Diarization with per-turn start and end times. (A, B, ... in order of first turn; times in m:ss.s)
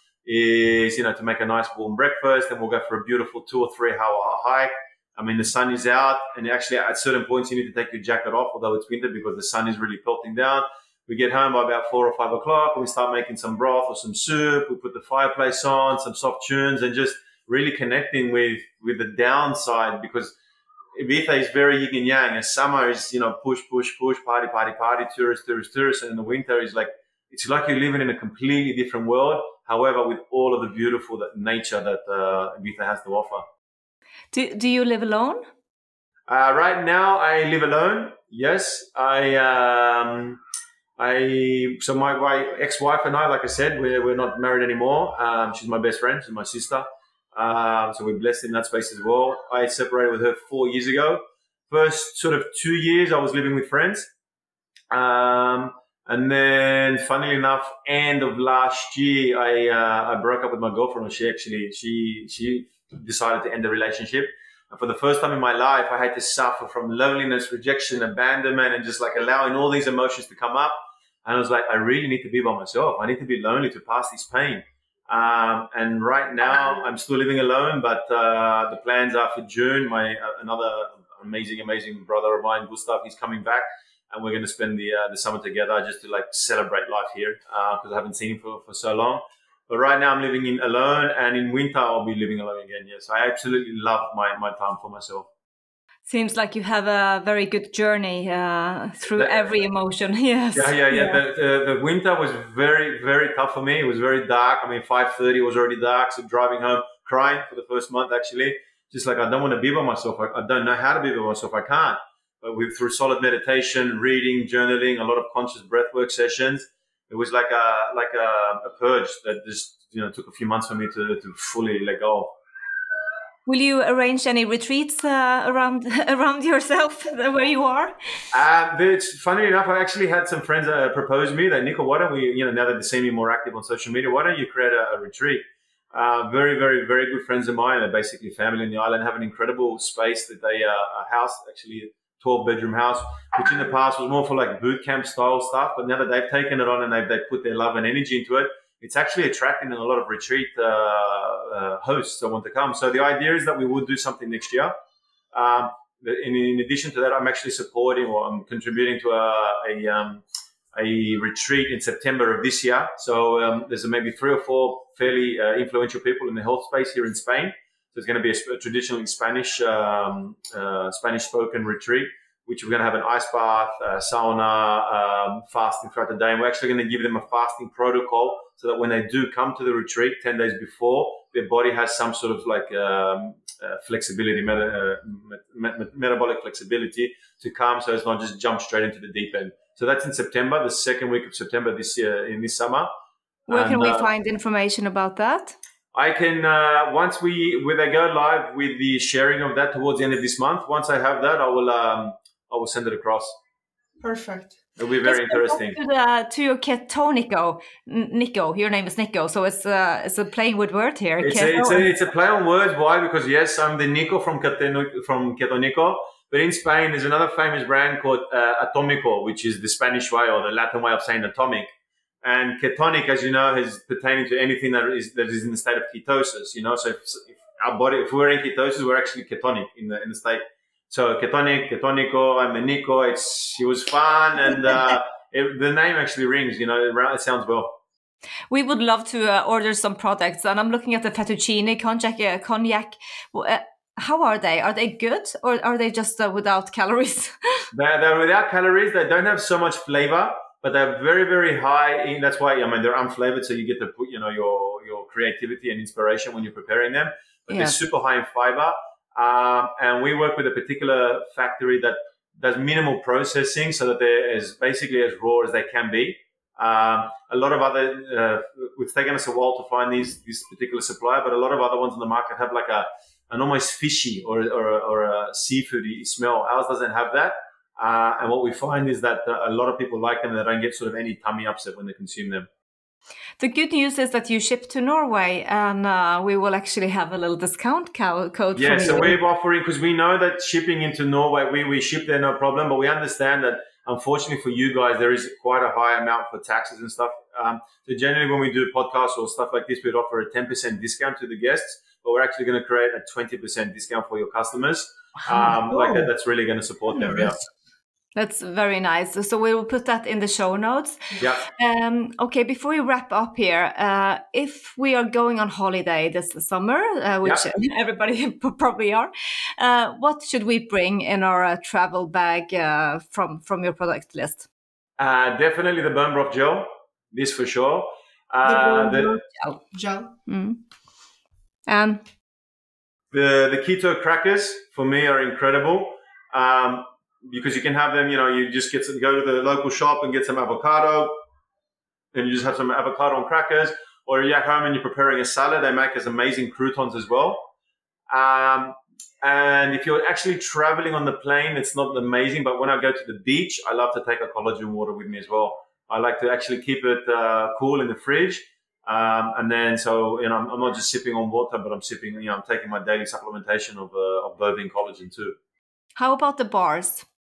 0:00.2-0:20.3 A
0:20.9-0:33.4 A
0:34.3-0:35.4 B
0:36.3-0:40.4 A
0:41.0-0:54.1 A
0:54.9-1:10.7 A
1:11.2-1:35.3 A
1:36.1-1:41.2 B
1:40.5-2:02.3 A
2:03.4-2:08.0 B
2:08.3-2:34.7 A
2:35.3-2:40.2 A
2:40.7-3:12.9 A
3:13.5-3:14.1 A
3:13.5-3:15.6 B
3:15.9-3:23.4 A
3:24.0-3:24.5 C
3:24.8-3:25.8 A
3:25.0-3:31.9 B
3:31.2-3:41.7 A
3:42.2-3:57.8 A
3:58.5-4:07.7 B
4:07.7-4:42.5 A
4:17.5-4:17.8 B
4:43.4-4:49.2 B
4:48.6-5:07.4 A
5:05.6-5:06.0 C
5:06.9-5:07.4 C
5:08.1-5:24.4 B
5:11.2-5:11.4 A
5:25.0-5:29.1 A
5:28.4-5:29.1 C
5:28.9-5:29.6 B
5:29.7-5:30.1 C
5:30.2-5:30.6 B
5:31.7-5:32.0 B
5:33.1-5:41.1 A
5:42.1-5:47.5 A
5:48.1-6:05.3 A
6:06.0-6:07.0 B